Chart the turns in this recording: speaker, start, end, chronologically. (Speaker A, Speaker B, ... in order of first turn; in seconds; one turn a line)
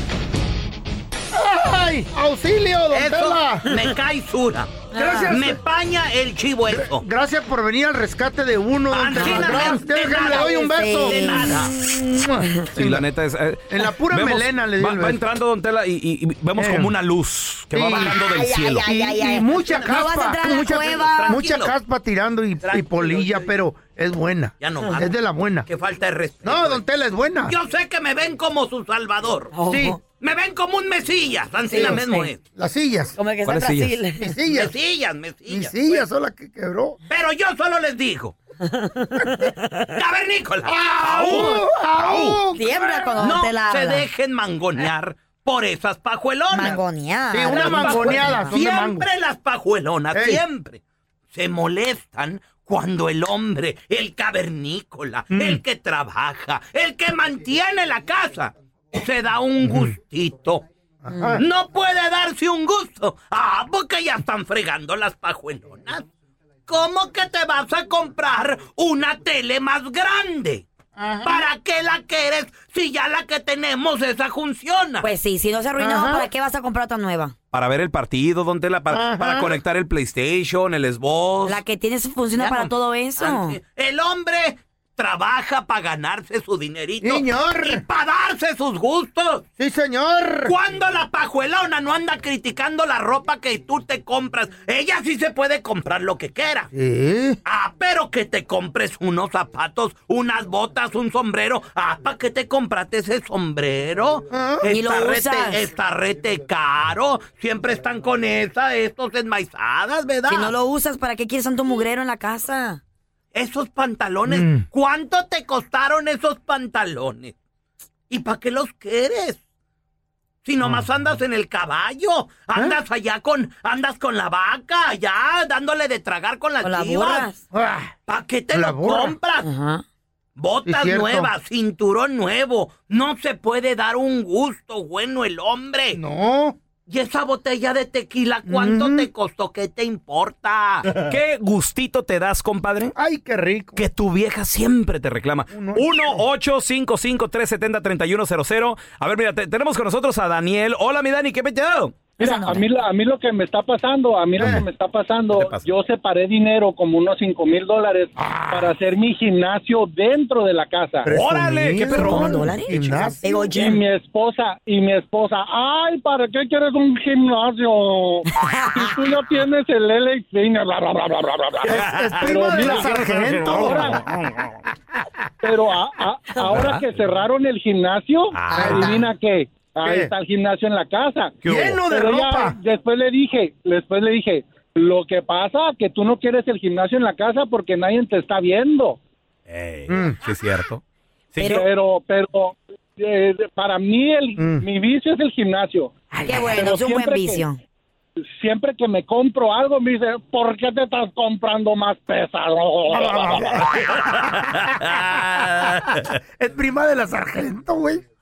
Speaker A: 1.3-3.7
Speaker B: 2.9-7.0
Speaker C: 4.9-5.4
Speaker A: 4.9-5.6
Speaker A: 6.7-13.0
Speaker B: 8.9-11.7
Speaker C: 9.2-12.0
Speaker D: 12.7-18.9
Speaker A: 13.7-15.2
Speaker A: 16.6-16.9
Speaker A: 17.7-18.2
Speaker C: 17.9-21.4
Speaker A: 18.8-25.7
Speaker B: 20.6-21.7
Speaker B: 22.6-23.5
Speaker B: 24.6-25.1
Speaker B: 25.7-26.8
Speaker A: 26.4-27.6
Speaker B: 27.5-29.5
Speaker C: 29.5-30.0
Speaker A: 29.7-30.0
Speaker B: 30.1-32.4
Speaker C: 31.7-32.3
Speaker A: 31.7-33.2
Speaker C: 33.2-34.4
Speaker D: 33.5-34.0
Speaker A: 34.2-34.8
Speaker B: 34.5-36.0
Speaker A: 35.5-37.0
Speaker B: 37.1-38.4
Speaker C: 38.6-39.8
Speaker B: 40.0-42.4
Speaker A: 40.6-43.0
Speaker C: 42.5-44.1
Speaker B: 43.2-46.8
Speaker C: 46.5-48.6
Speaker A: 47.3-49.1
Speaker B: 47.5-50.8
Speaker A: 50.1-50.4
Speaker B: 51.3-60.6
Speaker A: 55.3-55.6
Speaker A: 59.6-60.0
Speaker A: 61.0-61.5
Speaker C: 61.1-61.4
Speaker B: 61.4-66.1
Speaker B: 66.7-70.7
Speaker A: 71.0-71.5
Speaker B: 71.2-75.1
Speaker C: 75.0-77.3
Speaker A: 75.8-76.3
Speaker D: 77.5-81.6
Speaker A: 78.9-79.6
Speaker C: 81.5-83.6
Speaker B: 82.4-89.5
Speaker A: 87.0-87.8
Speaker A: 89.6-90.5
Speaker B: 90.5-96.7
Speaker A: 96.7-97.4
Speaker B: 97.5-110.5
Speaker A: 104.3-104.7
Speaker C: 104.7-105.6
Speaker C: 110.3-112.8
Speaker B: 113.3-117.3
Speaker A: 114.3-114.7
Speaker B: 118.1-119.4
Speaker B: 120.5-127.3
Speaker C: 126.6-127.4
Speaker A: 127.5-128.0
Speaker B: 128.1-129.5
Speaker A: 128.5-129.2
Speaker C: 129.4-129.8
Speaker B: 130.4-136.0
Speaker A: 130.7-131.3
Speaker A: 135.9-136.6
Speaker B: 136.9-140.9
Speaker A: 138.5-139.1
Speaker D: 141.0-142.9
Speaker A: 142.9-143.8
Speaker D: 143.8-152.0
Speaker A: 145.5-146.2
Speaker C: 152.2-152.7
Speaker E: 152.2-161.1
Speaker A: 154.4-154.7
Speaker D: 154.4-154.7
Speaker D: 155.3-155.7
Speaker A: 158.2-158.8
Speaker A: 161.0-163.2
Speaker D: 161.1-162.5
Speaker C: 161.9-163.8
Speaker E: 163.3-171.7
Speaker C: 168.3-168.9
Speaker A: 171.6-174.0
Speaker D: 171.7-174.0
Speaker E: 172.2-174.0
Speaker E: 175.4-189.0
Speaker D: 176.5-176.9
Speaker D: 178.3-179.0
Speaker C: 178.5-179.1
Speaker A: 178.6-178.9
Speaker A: 179.8-180.1
Speaker D: 181.4-181.8
Speaker A: 181.4-182.6
Speaker D: 189.5-190.8
Speaker A: 189.9-190.2
Speaker D: 191.3-191.7
Speaker E: 191.4-197.4
Speaker A: 194.4-194.7
Speaker C: 196.2-197.6
Speaker E: 198.3-203.5
Speaker A: 202.9-208.0